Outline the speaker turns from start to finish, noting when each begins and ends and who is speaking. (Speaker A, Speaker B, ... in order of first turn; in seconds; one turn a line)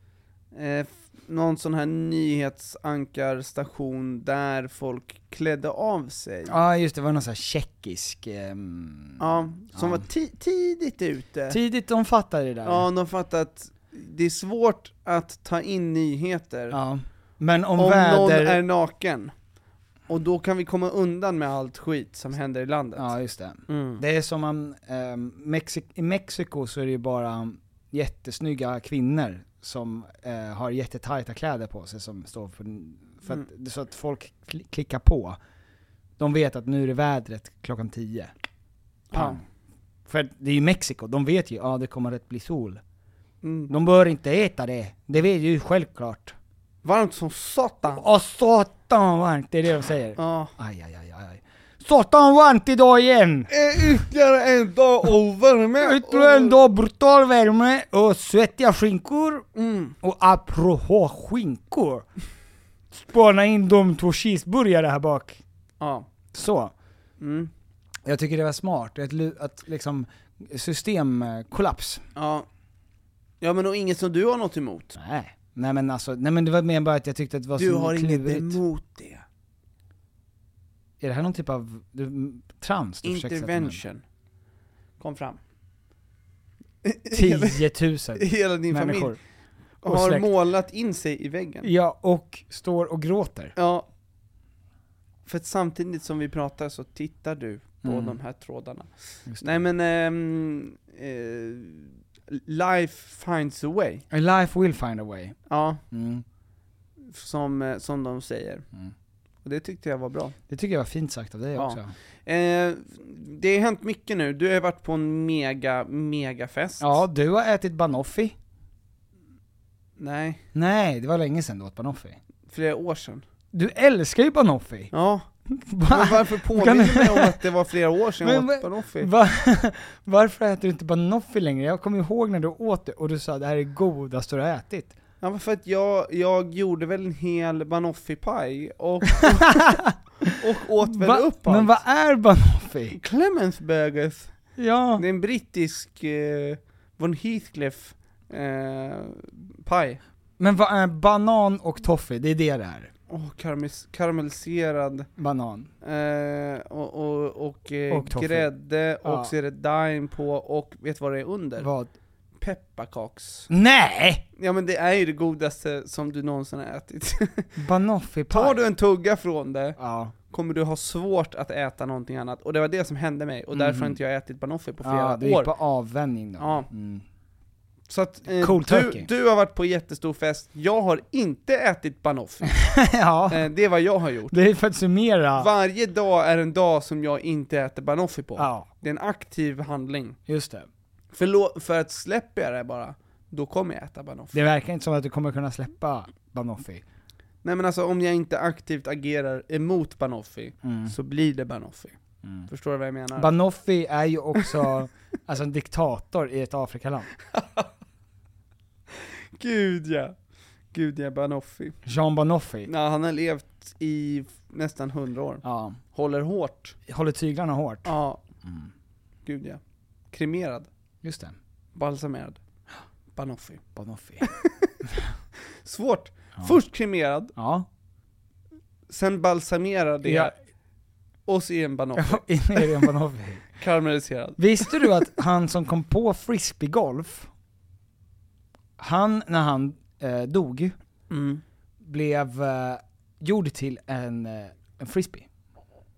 Speaker A: 0.5-6.6
Speaker B: 6.5-10.1
Speaker A: 9.2-11.6
Speaker B: 11.5-12.9
Speaker A: 12.7-16.8
Speaker B: 16.7-18.6
Speaker A: 17.8-19.3
Speaker A: 20.1-23.1
Speaker B: 23.0-35.4
Speaker A: 23.7-24.0
Speaker B: 36.2-38.3
Speaker A: 39.1-39.4
Speaker B: 39.1-39.4
Speaker B: 40.1-42.8
Speaker A: 43.4-43.7
Speaker B: 43.7-46.4
Speaker A: 46.8-48.0
Speaker B: 47.9-53.5
Speaker A: 50.2-50.5
Speaker A: 53.5-56.6
Speaker B: 55.8-59.5
Speaker A: 59.5-60.0
Speaker B: 60.0-62.1
Speaker B: 62.9-65.4
Speaker A: 65.8-66.1
Speaker B: 66.3-66.7
Speaker A: 67.2-67.5
Speaker B: 68.0-72.0
Speaker A: 72.2-72.5
Speaker A: 73.4-74.9
Speaker B: 75.0-78.6
Speaker A: 77.6-79.2
Speaker B: 81.0-83.8
Speaker A: 83.0-84.0
Speaker A: 85.0-85.4
Speaker A: 86.8-87.6
Speaker B: 87.1-89.2
Speaker A: 88.2-89.2
Speaker B: 89.8-90.3
Speaker A: 89.8-91.7
Speaker B: 91.6-93.6
Speaker A: 93.6-93.9
Speaker A: 95.3-104.0
Speaker B: 97.8-98.2
Speaker B: 99.3-99.6
Speaker B: 104.1-105.4
Speaker A: 105.5-105.8
Speaker B: 105.9-106.2
Speaker A: 107.0-108.7
Speaker A: 109.4-110.4
Speaker B: 110.5-111.9
Speaker A: 111.6-117.0
Speaker B: 116.8-118.4
Speaker A: 120.0-120.4
Speaker B: 120.5-122.2
Speaker A: 122.5-123.2
Speaker B: 123.5-124.9
Speaker A: 124.9-125.3
Speaker B: 125.5-127.5
Speaker A: 125.9-129.1
Speaker B: 128.2-134.9
Speaker A: 135.2-139.8
Speaker B: 139.2-143.0
Speaker A: 140.3-141.8
Speaker A: 142.9-144.3
Speaker B: 144.6-145.0
Speaker A: 145.0-150.0
Speaker B: 150.4-152.9
Speaker A: 153.1-155.1
Speaker B: 155.2-155.7
Speaker A: 155.8-161.7
Speaker B: 157.9-158.5
Speaker B: 159.0-159.3
Speaker B: 161.6-161.9
Speaker A: 162.4-163.5
Speaker B: 163.5-164.3
Speaker A: 164.4-167.5
Speaker B: 167.6-168.7
Speaker A: 168.3-169.8
Speaker B: 169.8-170.1
Speaker A: 170.3-175.5
Speaker B: 173.5-174.0
Speaker B: 174.8-177.0
Speaker A: 176.4-176.7
Speaker A: 177.9-182.6
Speaker B: 178.4-179.1
Speaker B: 182.6-183.5
Speaker A: 183.3-184.4
Speaker B: 184.3-185.5
Speaker A: 185.4-190.2
Speaker B: 188.4-188.7
Speaker B: 190.3-190.7
Speaker A: 191.1-194.4
Speaker B: 194.3-196.8
Speaker A: 197.4-203.3
Speaker B: 200.6-200.9
Speaker B: 202.2-202.5
Speaker B: 203.2-207.1
Speaker A: 207.3-207.7
Speaker A: 209.4-210.2
Speaker A: 210.7-211.8
Speaker B: 211.8-212.7
Speaker A: 212.7-216.8
Speaker B: 215.4-215.8
Speaker B: 216.9-218.7
Speaker A: 217.8-218.2
Speaker A: 219.3-219.6
Speaker A: 220.1-220.7
Speaker B: 221.0-221.4
Speaker A: 221.8-222.4
Speaker A: 223.2-223.6
Speaker B: 223.8-224.3
Speaker A: 224.2-224.8
Speaker A: 225.6-227.3
Speaker B: 227.4-227.7
Speaker A: 228.9-230.3
Speaker B: 230.0-230.3
Speaker A: 231.3-232.9
Speaker B: 232.0-233.5
Speaker A: 233.6-234.9
Speaker B: 234.4-237.3
Speaker B: 238.8-240.8
Speaker A: 241.1-241.4
Speaker B: 241.8-245.3